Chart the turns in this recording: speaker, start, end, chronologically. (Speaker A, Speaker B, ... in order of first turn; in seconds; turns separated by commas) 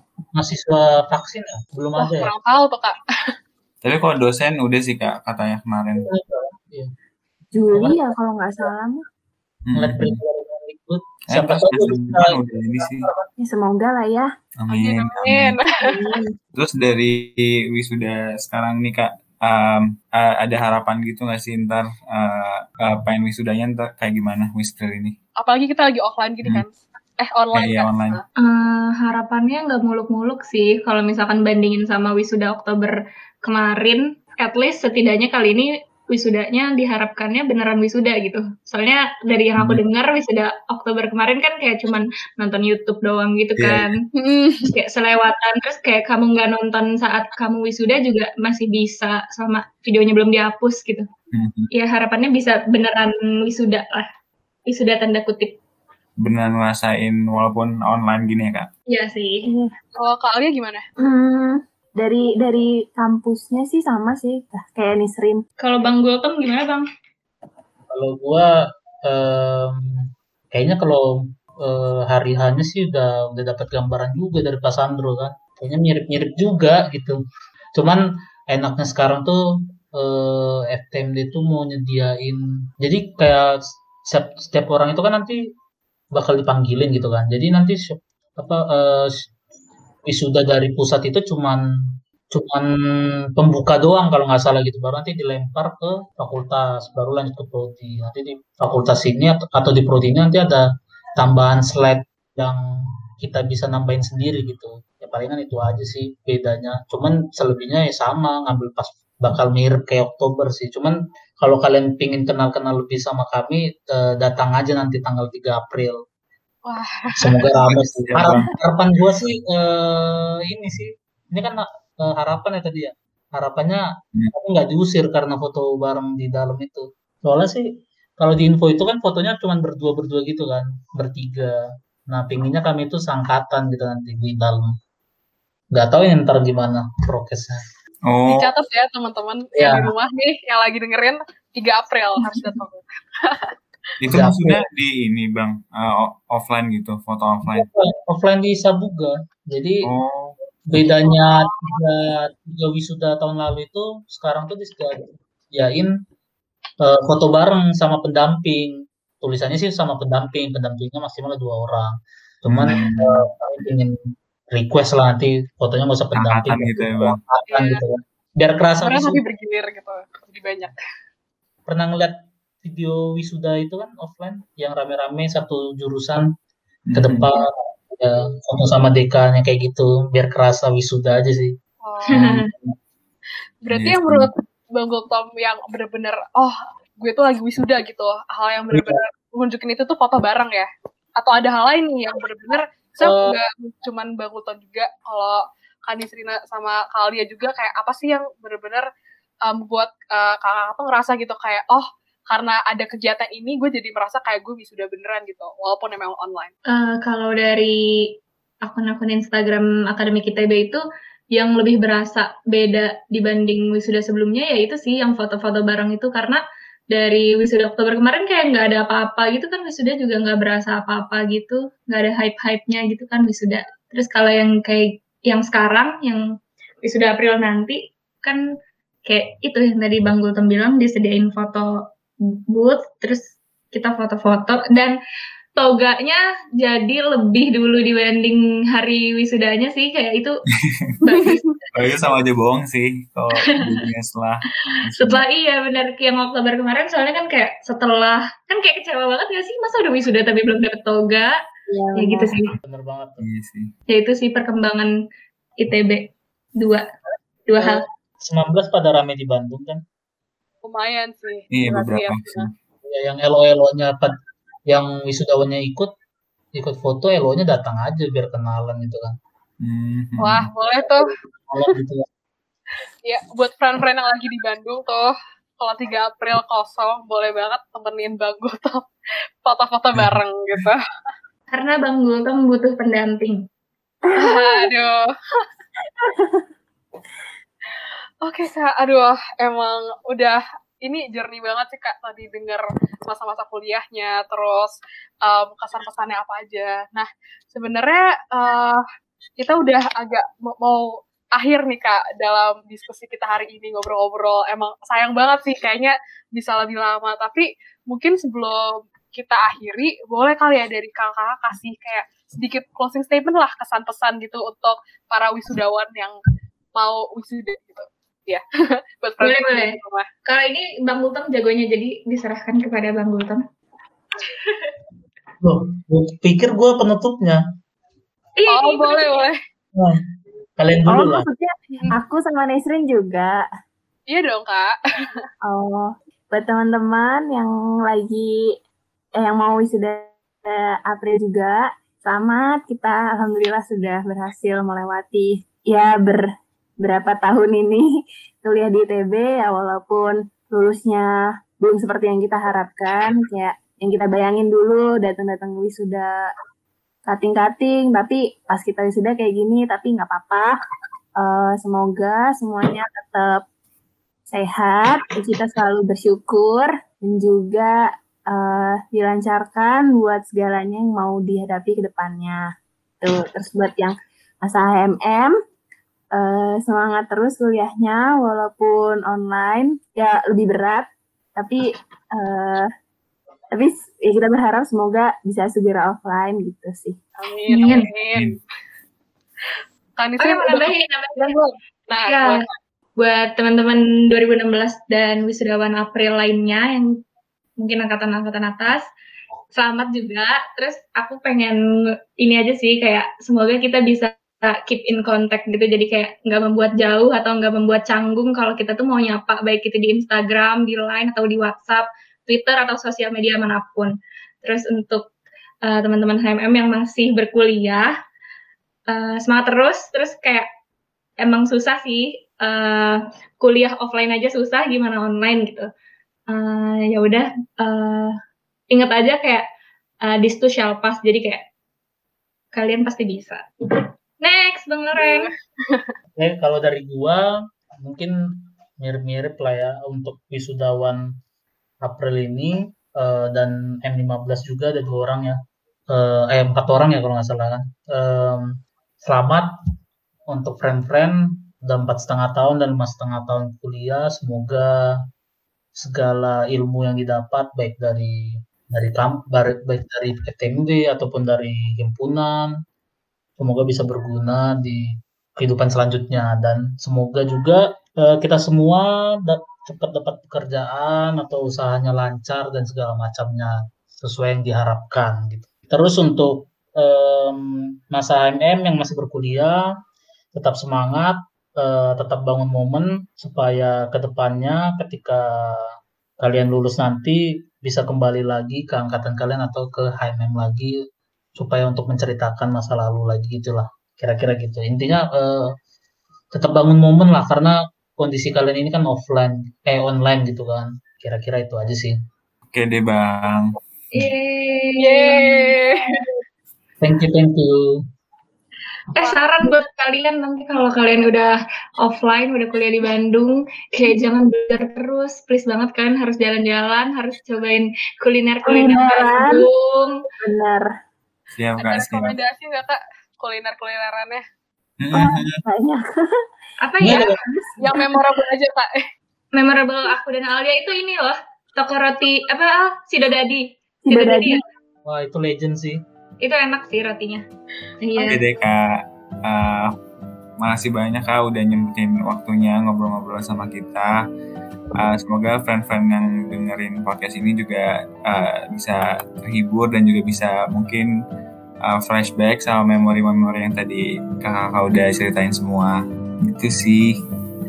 Speaker A: 0.3-2.3, Speaker B: 2.0-3.3, Speaker C: 3.8-6.1, Speaker A: 6.1-6.9, Speaker D: 7.5-9.0, Speaker A: 7.7-8.1, Speaker C: 9.7-10.2, Speaker A: 9.8-13.2, Speaker C: 11.3-13.1, Speaker D: 13.4-14.3, Speaker C: 14.6-15.6, Speaker B: 14.7-16.0, Speaker D: 15.8-16.3, Speaker C: 16.6-25.2, Speaker B: 25.4-26.7, Speaker B: 27.2-28.2, Speaker C: 27.5-28.2, Speaker E: 28.4-44.0, Speaker C: 43.6-43.9, Speaker B: 44.1-44.7, Speaker E: 44.7-51.1, Speaker C: 51.3-51.7, Speaker E: 51.7-54.1, Speaker E: 54.7-55.6, Speaker C: 56.2-58.7, Speaker E: 58.9-59.5, Speaker D: 59.5-59.7, Speaker B: 60.0-60.9, Speaker D: 61.0-65.4, Speaker E: 65.6-66.8, Speaker A: 67.9-68.5, Speaker A: 69.1-77.2, Speaker A: 77.8-79.4, Speaker A: 79.9-85.4, Speaker A: 86.2-89.1, Speaker A: 90.1-91.6, Speaker A: 92.3-92.7, Speaker A: 93.4-100.7, Speaker A: 101.2-102.6, Speaker A: 103.2-116.0, Speaker B: 116.7-117.5, Speaker A: 117.2-127.7, Speaker C: 117.6-118.5, Speaker A: 128.2-131.6, Speaker A: 132.1-134.7, Speaker A: 135.7-137.6, Speaker C: 138.1-138.5, Speaker B: 138.3-143.5, Speaker A: 139.6-139.9, Speaker C: 144.0-147.7, Speaker A: 144.1-144.6, Speaker A: 147.5-149.8, Speaker C: 149.8-150.4, Speaker A: 150.7-155.9, Speaker A: 156.8-163.9, Speaker C: 162.5-163.2, Speaker A: 164.5-169.2, Speaker C: 166.2-167.2, Speaker B: 167.5-167.8, Speaker B: 168.8-170.8, Speaker A: 171.7-176.3, Speaker C: 176.9-177.3, Speaker A: 177.0-181.6, Speaker B: 181.8-182.2, Speaker E: 182.1-182.5, Speaker A: 182.1-182.7, Speaker B: 183.6-190.7, Speaker C: 183.7-184.3, Speaker B: 191.2-198.9, Speaker A: 193.0-193.4, Speaker B: 199.5-206.5, Speaker E: 206.7-207.8, Speaker E: 208.6-210.8, Speaker E: 211.3-216.4, Speaker E: 216.9-226.2, Speaker E: 226.8-228.4, Speaker E: 229.1-231.7, Speaker E: 232.5-234.9, Speaker E: 235.6-240.4, Speaker E: 241.0-242.1, Speaker C: 241.7-245.2, Speaker E: 243.3-243.9, Speaker E: 244.7-251.3, Speaker D: 251.7-252.3, Speaker E: 251.9-252.6, Speaker A: 252.6-253.3, Speaker C: 253.2-253.7, Speaker E: 253.9-254.9, Speaker E: 255.6-256.9, Speaker E: 257.5-257.9, Speaker A: 258.2-259.8, Speaker B: 260.6-262.5, Speaker C: 261.5-262.5, Speaker A: 262.9-264.1, Speaker A: 264.7-265.9, Speaker A: 266.6-269.2, Speaker C: 269.6-270.5, Speaker B: 270.2-271.1, Speaker A: 270.8-272.1, Speaker B: 273.1-278.9, Speaker B: 279.4-280.8, Speaker C: 279.9-280.7, Speaker E: 281.5-283.4, Speaker D: 284.1-284.7, Speaker B: 284.2-285.4, Speaker D: 286.0-286.5, Speaker B: 287.8-298.8, Speaker B: 299.4-316.2, Speaker B: 316.8-318.4, Speaker B: 319.0-320.1, Speaker E: 319.2-323.4, Speaker E: 324.3-324.7, Speaker A: 325.4-327.4, Speaker E: 328.4-329.2, Speaker B: 328.5-329.4, Speaker A: 329.8-330.0, Speaker A: 330.6-331.3, Speaker D: 330.9-333.4, Speaker B: 334.1-334.7, Speaker D: 335.4-338.5, Speaker D: 339.2-346.3, Speaker D: 346.8-347.9, Speaker D: 348.4-351.1, Speaker D: 351.6-356.1, Speaker D: 357.1-360.5, Speaker D: 361.2-363.4, Speaker D: 364.3-372.4, Speaker D: 373.0-375.3, Speaker D: 376.1-382.7, Speaker D: 383.6-387.0, Speaker B: 387.2-388.3, Speaker E: 387.5-387.9, Speaker C: 387.6-388.4, Speaker B: 390.0-392.5, Speaker E: 390.2-391.4, Speaker E: 392.1-392.4, Speaker E: 393.0-396.9, Speaker E: 397.6-398.9, Speaker E: 399.5-401.6, Speaker E: 402.2-415.1, Speaker E: 415.6-417.9, Speaker E: 418.9-420.5, Speaker E: 421.2-425.7, Speaker E: 426.3-428.1, Speaker E: 428.7-429.4, Speaker E: 430.1-431.5, Speaker E: 432.5-435.3, Speaker B: 435.0-435.9, Speaker A: 436.1-438.1, Speaker A: 438.8-441.1, Speaker A: 441.8-445.4, Speaker A: 445.9-449.5, Speaker A: 450.3-455.0, Speaker A: 455.8-462.6, Speaker A: 463.4-479.6, Speaker A: 480.3-490.8, Speaker A: 491.4-495.5, Speaker A: 496.3-502.0, Speaker C: 502.5-503.6, Speaker E: 503.9-505.6, Speaker B: 504.8-506.0, Speaker A: 506.8-507.8, Speaker E: 508.9-520.0, Speaker D: 518.5-519.5, Speaker D: 520.2-520.7, Speaker C: 521.4-522.2, Speaker B: 521.6-524.2, Speaker C: 524.8-525.4, Speaker D: 524.9-525.9, Speaker E: 526.6-527.1, Speaker A: 526.8-527.1, Speaker D: 526.8-528.0, Speaker B: 527.6-528.8, Speaker E: 529.4-534.4, Speaker D: 533.9-534.4, Speaker A: 534.9-535.8, Speaker E: 536.2-537.2, Speaker E: 537.8-538.2, Speaker B: 538.0-538.2, Speaker C: 538.1-539.8, Speaker C: 540.4-544.0, Speaker C: 544.8-550.9, Speaker C: 551.6-557.0